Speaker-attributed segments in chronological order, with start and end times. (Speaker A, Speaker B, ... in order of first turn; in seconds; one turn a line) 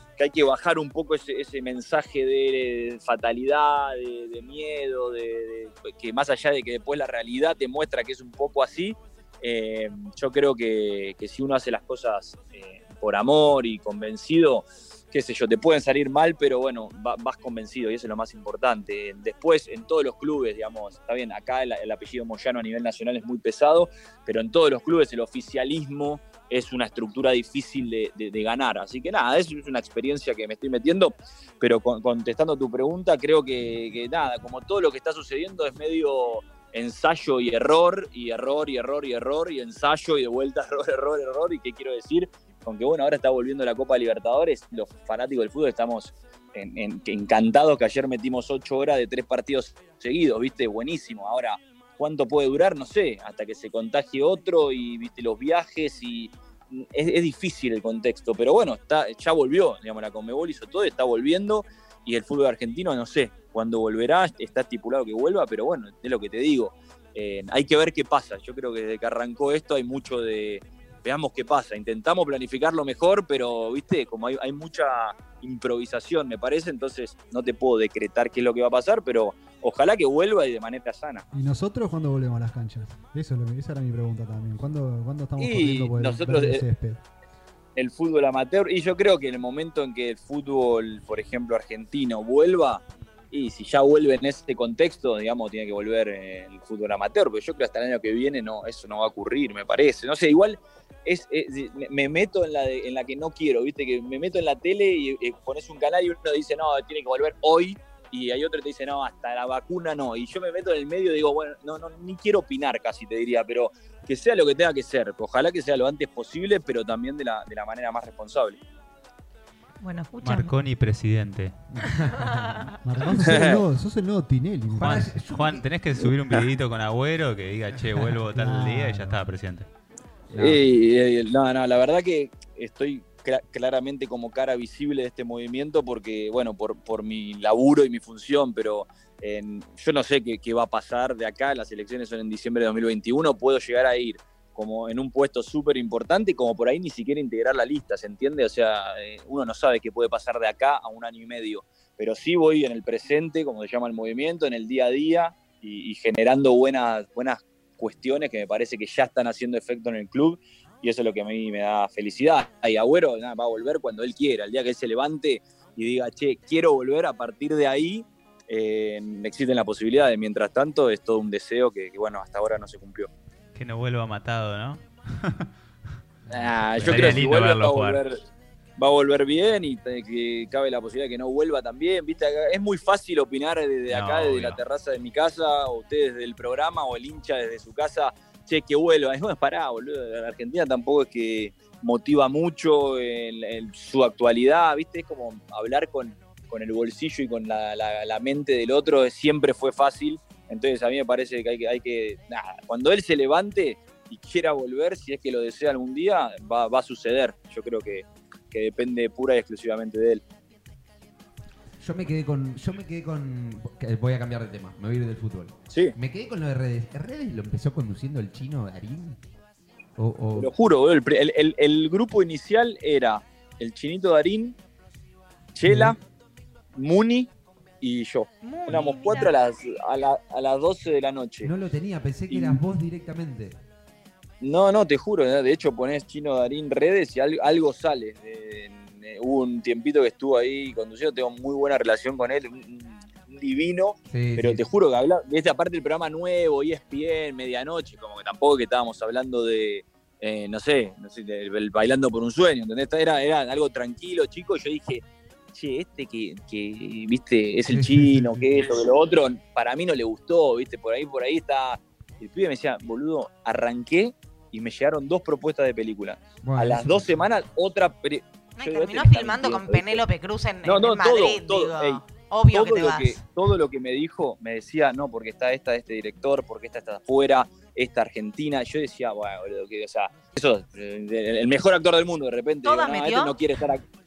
Speaker A: 0.2-81.2
Speaker B: 81.3-87.0
Speaker A: 85.4-86.6
Speaker A: 87.8-118.6
Speaker C: 119.8-120.5
Speaker D: 120.2-121.5
Speaker E: 121.7-122.6
Speaker B: 122.8-125.2
Speaker A: 123.1-123.6
Speaker E: 124.7-125.7
Speaker D: 125.3-129.7
Speaker B: 128.3-129.2
Speaker E: 130.3-130.6
Speaker A: 130.3-173.1
Speaker D: 173.5-175.5
Speaker E: 176.3-177.3
Speaker A: 176.3-178.2
Speaker D: 176.8-178.0
Speaker A: 178.8-210.2
Speaker D: 183.9-184.6
Speaker E: 211.8-219.2
Speaker A: 215.7-215.9
Speaker E: 220.0-220.5
Speaker A: 220.3-224.6
Speaker A: 225.5-226.0
Speaker E: 225.7-225.9
Speaker A: 226.7-227.3
Speaker A: 227.8-231.5
Speaker C: 228.4-229.3
Speaker E: 231.4-233.6
Speaker A: 232.3-232.6
Speaker A: 234.4-270.0
Speaker E: 244.1-244.6
Speaker E: 257.7-258.6
Speaker E: 266.4-267.2
Speaker C: 268.6-273.2
Speaker A: 270.6-272.0
Speaker A: 272.5-283.8
Speaker C: 282.6-283.4